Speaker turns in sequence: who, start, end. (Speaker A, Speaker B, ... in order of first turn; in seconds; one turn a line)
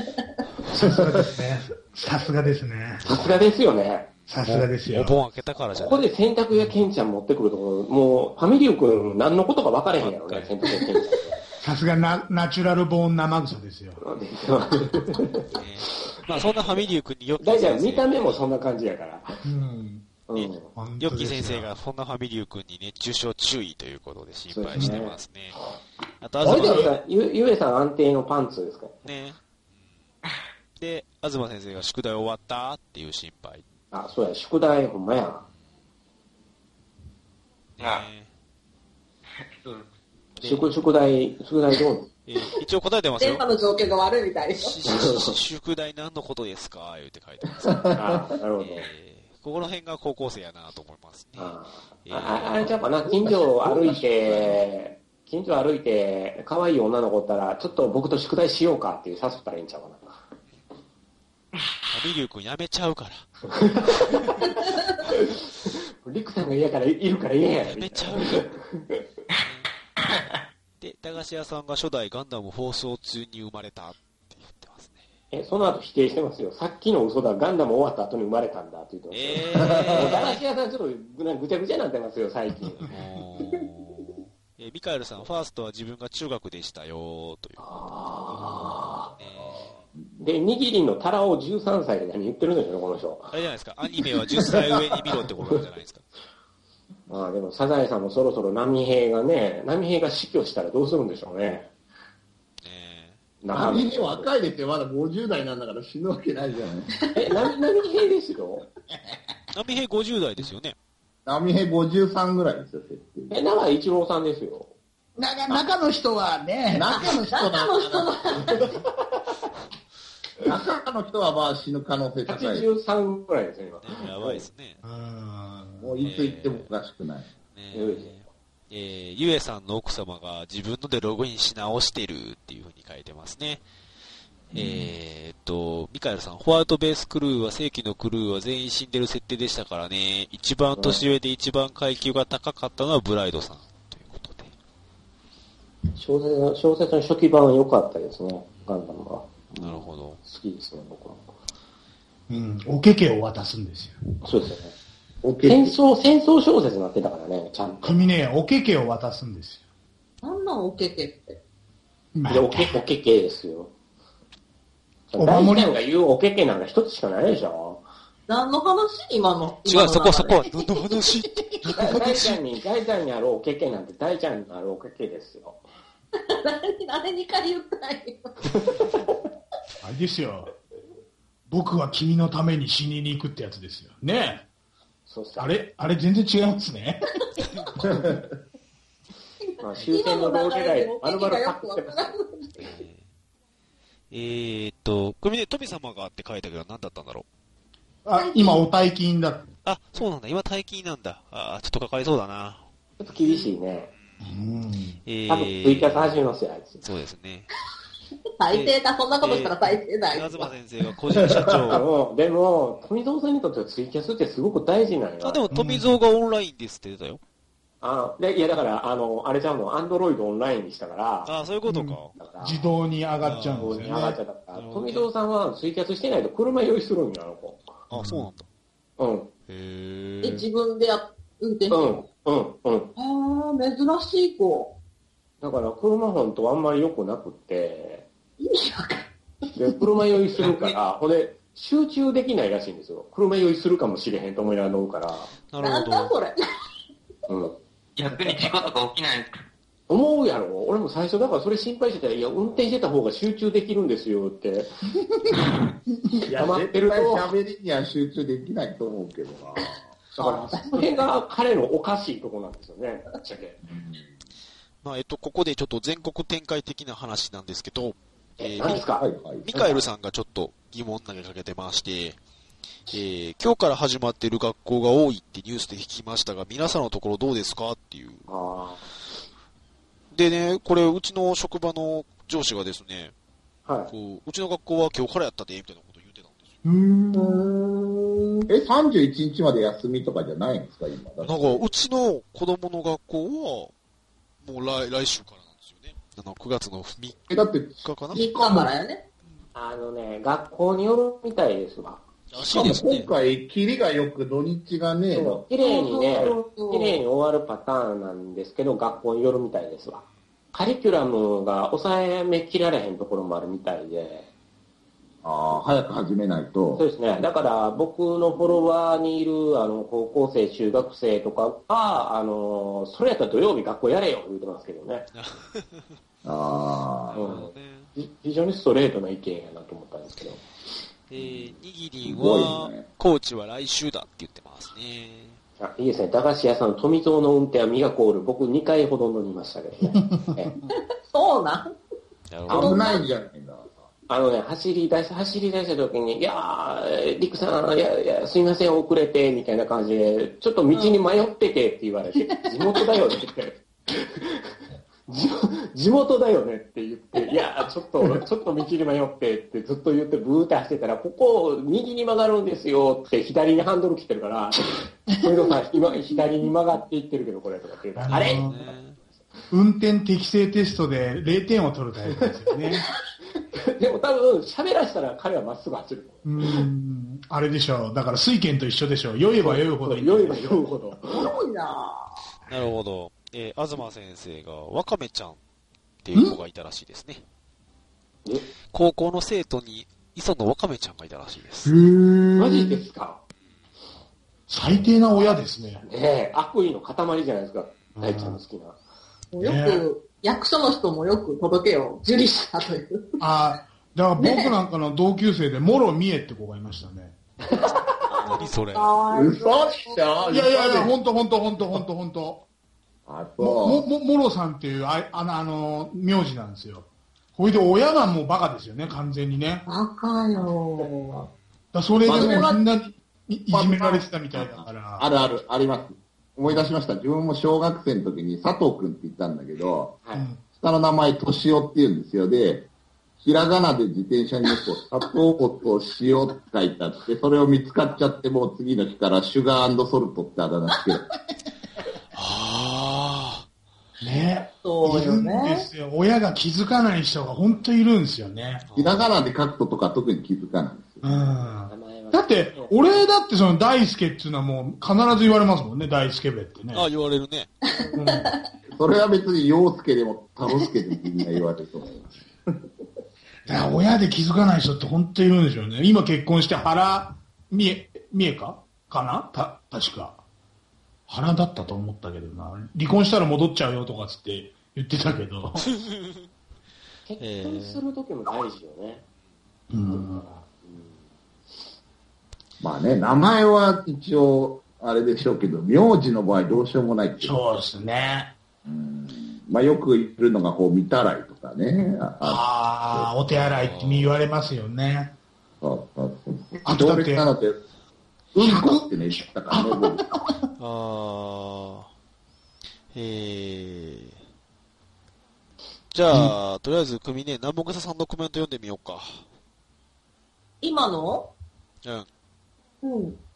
Speaker A: 0.7-3.3
Speaker B: 3.0-4.1
Speaker A: 4.3-5.2
Speaker C: 4.4-6.0
Speaker B: 5.7-11.4
Speaker C: 10.0-10.8
Speaker A: 11.6-14.0
Speaker B: 14.0-15.6
Speaker C: 15.6-18.4
Speaker B: 16.4-16.9
Speaker B: 17.4-19.3
Speaker A: 19.4-20.1
Speaker B: 20.3-20.7
Speaker C: 20.4-25.6
Speaker A: 20.7-21.7
Speaker B: 24.5-25.1
Speaker A: 24.8-25.0
Speaker C: 26.2-26.9
Speaker A: 26.4-26.9
Speaker B: 26.4-29.0
Speaker C: 29.0-29.4
Speaker C: 30.8-33.6
Speaker B: 33.9-35.5
Speaker C: 37.8-38.3
Speaker D: 37.8-38.0
Speaker D: 39.4-39.9
Speaker C: 40.4-40.7
Speaker B: 40.4-42.1
Speaker C: 42.3-43.5
Speaker E: 43.2-44.8
Speaker C: 44.6-47.9
Speaker B: 44.9-45.4
Speaker F: 47.7-48.2
Speaker B: 47.9-48.9
Speaker C: 48.6-52.8
Speaker B: 51.4-60.2
Speaker F: 53.1-54.4
Speaker C: 61.9-63.3
Speaker B: 63.5-69.0
Speaker C: 67.6-68.5
Speaker C: 69.4-69.7
Speaker C: 70.8-75.0
Speaker B: 75.3-82.8
Speaker C: 79.1-80.4
Speaker C: 82.8-87.6
Speaker B: 87.6-89.1
Speaker C: 88.3-89.8
Speaker B: 90.2-93.3
Speaker C: 93.3-96.1
Speaker B: 97.1-101.7
Speaker C: 102.6-103.2
Speaker B: 103.4-104.3
Speaker F: 103.5-106.9
Speaker B: 107.1-108.7
Speaker C: 109.5-110.8
Speaker F: 111.3-113.4
Speaker B: 113.3-114.7
Speaker A: 115.2-116.8
Speaker F: 116.7-118.6
Speaker E: 117.0-118.7
Speaker F: 120.4-122.7
Speaker B: 122.3-124.5
Speaker C: 123.8-124.8
Speaker A: 124.8-126.0
Speaker F: 125.8-127.3
Speaker C: 126.0-126.7
Speaker C: 127.5-133.6
Speaker B: 127.7-128.2
Speaker C: 134.5-144.5
Speaker F: 134.5-134.8
Speaker B: 140.8-141.0
Speaker B: 146.0-151.2
Speaker C: 149.6-150.2
Speaker A: 152.3-154.0
Speaker B: 154.2-154.8
Speaker F: 155.2-155.8
Speaker B: 155.4-158.0
Speaker A: 157.8-159.6
Speaker E: 160.2-161.4
Speaker A: 162.2-162.8
Speaker B: 162.3-163.7
Speaker B: 165.1-167.8
Speaker A: 165.2-165.8
Speaker E: 168.3-170.5
Speaker C: 169.7-172.4
Speaker B: 171.8-175.6
Speaker E: 176.3-178.5
Speaker B: 178.5-178.9
Speaker A: 179.8-180.5
Speaker A: 181.5-184.4
Speaker B: 185.1-185.6
Speaker A: 185.4-187.1
Speaker E: 189.5-192.8
Speaker B: 189.6-192.0
Speaker C: 192.6-193.0
Speaker C: 194.1-197.3
Speaker A: 198.1-199.5
Speaker E: 198.2-198.6
Speaker C: 199.6-202.7
Speaker B: 203.0-203.9
Speaker A: 204.2-205.0
Speaker C: 205.1-206.2
Speaker B: 205.3-206.8
Speaker C: 206.8-207.5
Speaker E: 208.4-210.5
Speaker C: 208.5-209.6
Speaker C: 210.1-211.8
Speaker F: 211.2-211.6
Speaker B: 211.7-215.5
Speaker C: 215.2-217.2
Speaker A: 215.5-216.0
Speaker B: 217.8-221.3
Speaker C: 221.2-222.2
Speaker A: 221.7-224.2
Speaker B: 222.2-222.6
Speaker C: 223.2-223.9
Speaker B: 223.6-227.7
Speaker C: 224.5-225.1
Speaker C: 227.9-228.5
Speaker A: 227.9-228.3
Speaker B: 229.0-229.3
Speaker C: 229.5-230.4
Speaker E: 230.2-232.0
Speaker B: 231.7-232.9
Speaker E: 233.0-234.7
Speaker B: 235.4-238.1
Speaker E: 238.4-239.1
Speaker B: 239.6-245.3
Speaker C: 245.5-246.1
Speaker E: 245.6-246.4
Speaker B: 247.3-247.6
Speaker D: 248.0-249.4
Speaker B: 249.9-254.7
Speaker B: 256.3-257.3
Speaker F: 256.3-259.9
Speaker E: 259.6-261.0
Speaker B: 260.2-263.6
Speaker F: 263.7-264.1
Speaker C: 264.8-268.8
Speaker B: 268.4-269.9
Speaker F: 268.7-269.5
Speaker C: 269.4-272.2
Speaker C: 272.9-278.3
Speaker B: 278.3-278.9
Speaker C: 280.1-283.1
Speaker B: 283.7-283.9
Speaker C: 283.9-286.5
Speaker E: 287.1-288.5
Speaker F: 288.5-291.7
Speaker C: 291.2-293.7
Speaker C: 294.4-297.2
Speaker F: 297.3-298.7
Speaker C: 297.8-298.2
Speaker E: 298.1-299.0
Speaker B: 299.6-302.0
Speaker C: 302.3-303.1
Speaker F: 302.4-305.4
Speaker B: 305.1-314.3
Speaker E: 305.6-307.0
Speaker F: 315.2-316.8
Speaker B: 316.8-325.1
Speaker C: 325.1-326.0
Speaker F: 326.2-327.2
Speaker C: 327.1-327.9
Speaker B: 327.2-330.4
Speaker C: 331.1-335.4
Speaker F: 331.2-331.5
Speaker F: 332.0-332.9
Speaker B: 335.6-340.5
Speaker A: 339.9-340.5
Speaker E: 341.1-341.7
Speaker C: 342.3-342.9
Speaker F: 342.5-343.7
Speaker E: 342.5-343.0
Speaker B: 344.1-354.5
Speaker E: 350.7-351.0
Speaker B: 355.1-368.7
Speaker A: 368.0-368.7
Speaker C: 368.1-369.0
Speaker A: 369.5-372.9
Speaker B: 373.5-376.3
Speaker A: 376.2-380.6
Speaker B: 379.4-381.3
Speaker E: 381.1-382.1
Speaker C: 382.5-385.4
Speaker C: 386.0-387.2
Speaker C: 388.7-391.7
Speaker A: 391.6-392.8
Speaker B: 392.4-393.2
Speaker A: 394.5-395.9
Speaker B: 395.8-398.8
Speaker A: 398.0-398.4
Speaker E: 399.3-403.2
Speaker A: 399.4-399.9
Speaker A: 403.2-407.2
Speaker E: 404.2-404.5
Speaker E: 408.1-410.0
Speaker C: 408.3-408.9
Speaker F: 409.1-410.9
Speaker A: 410.3-412.4
Speaker F: 413.1-413.9
Speaker A: 413.4-419.6
Speaker E: 419.7-421.3
Speaker A: 421.7-425.1
Speaker E: 422.0-422.6
Speaker F: 422.0-422.5
Speaker F: 423.5-429.9
Speaker A: 430.1-430.4
Speaker F: 430.6-432.7
Speaker F: 433.2-441.0
Speaker C: 442.1-443.4
Speaker A: 444.0-448.6
Speaker E: 444.6-445.7
Speaker C: 448.7-449.1
Speaker F: 448.8-451.1
Speaker A: 451.0-456.9
Speaker B: 451.7-453.0
Speaker C: 456.7-457.5
Speaker E: 457.7-458.3
Speaker A: 457.9-458.3
Speaker F: 458.8-462.0
Speaker A: 463.5-470.2
Speaker A: 471.1-475.7
Speaker C: 475.6-476.3
Speaker B: 477.1-479.0
Speaker C: 477.2-477.8
Speaker A: 479.7-480.4
Speaker B: 479.9-481.0
Speaker F: 482.6-487.4
Speaker A: 487.2-488.3
Speaker F: 488.6-493.1
Speaker A: 492.2-495.1
Speaker C: 493.3-494.1
Speaker F: 495.6-497.6
Speaker A: 496.6-497.3
Speaker F: 498.4-500.1
Speaker A: 498.4-500.5
Speaker C: 500.6-501.9
Speaker C: 502.9-504.2
Speaker C: 505.9-509.2
Speaker A: 506.1-506.4
Speaker E: 510.6-511.3
Speaker E: 512.8-513.2